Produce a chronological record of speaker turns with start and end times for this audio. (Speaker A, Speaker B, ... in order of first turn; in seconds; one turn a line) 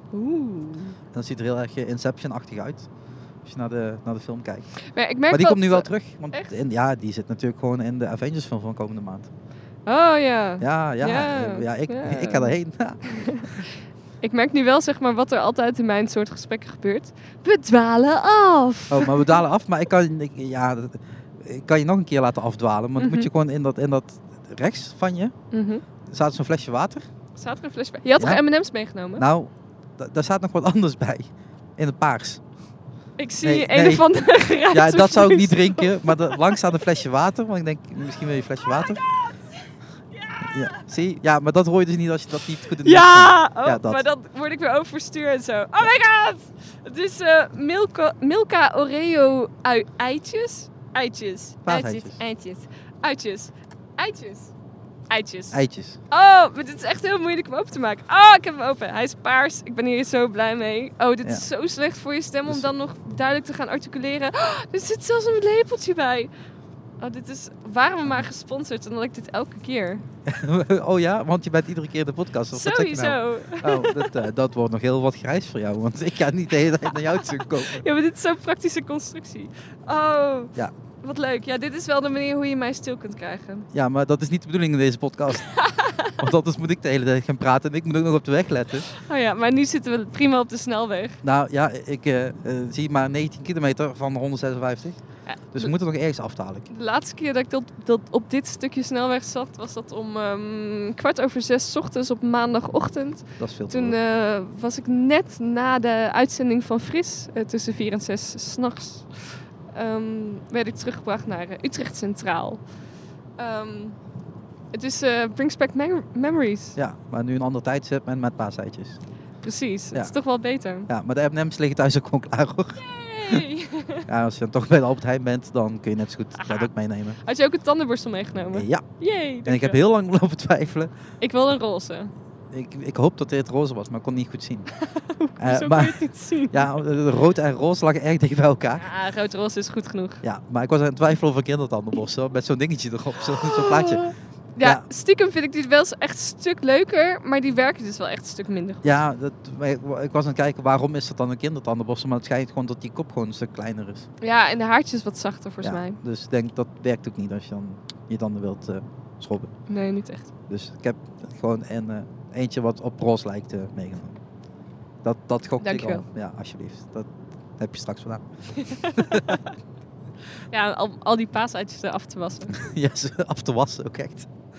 Speaker A: 0.1-1.0
Speaker B: 1.1-2.9
Speaker B: 3.4-4.7
Speaker A: 4.8-6.5
Speaker B: 5.3-9.3
Speaker A: 9.9-19.4
Speaker B: 10.6-13.6
Speaker B: 18.9-25.4
Speaker A: 23.0-23.3
Speaker A: 25.5-25.8
Speaker B: 26.1-27.0
Speaker A: 27.4-29.2
Speaker B: 29.1-32.4
Speaker A: 33.2-36.8
Speaker B: 33.4-34.1
Speaker B: 34.7-39.0
Speaker A: 38.8-40.9
Speaker B: 40.4-44.0
Speaker A: 42.8-54.5
Speaker B: 51.6-52.2
Speaker A: 55.1-66.3
Speaker B: 55.5-56.0
Speaker A: 67.0-70.0
Speaker B: 70.2-77.9
Speaker A: 72.5-74.3
Speaker A: 76.9-83.7
Speaker B: 83.7-85.5
Speaker A: 85.4-86.2
Speaker B: 86.2-88.9
Speaker A: 88.9-91.2
Speaker B: 91.2-95.0
Speaker A: 95.3-95.7
Speaker B: 95.5-96.7
Speaker A: 96.7-109.2
Speaker B: 103.4-104.0
Speaker A: 109.7-112.6
Speaker A: 113.4-114.0
Speaker A: 114.7-116.8
Speaker B: 116.8-119.0
Speaker A: 119.4-120.9
Speaker B: 120.9-123.4
Speaker A: 122.8-124.1
Speaker B: 124.1-127.2
Speaker A: 126.4-126.7
Speaker A: 127.2-129.8
Speaker B: 128.5-128.8
Speaker B: 129.4-130.9
Speaker A: 131.2-132.1
Speaker B: 132.5-134.7
Speaker A: 134.7-136.7
Speaker B: 135.4-138.9
Speaker A: 138.8-140.2
Speaker B: 140.2-144.0
Speaker A: 143.2-149.0
Speaker B: 148.8-154.1
Speaker A: 154.2-156.0
Speaker B: 155.6-159.5
Speaker A: 159.7-160.3
Speaker B: 160.5-164.2
Speaker B: 165.0-168.2
Speaker A: 165.6-166.0
Speaker A: 168.5-169.5
Speaker B: 168.9-169.4
Speaker A: 170.5-172.6
Speaker B: 172.5-174.3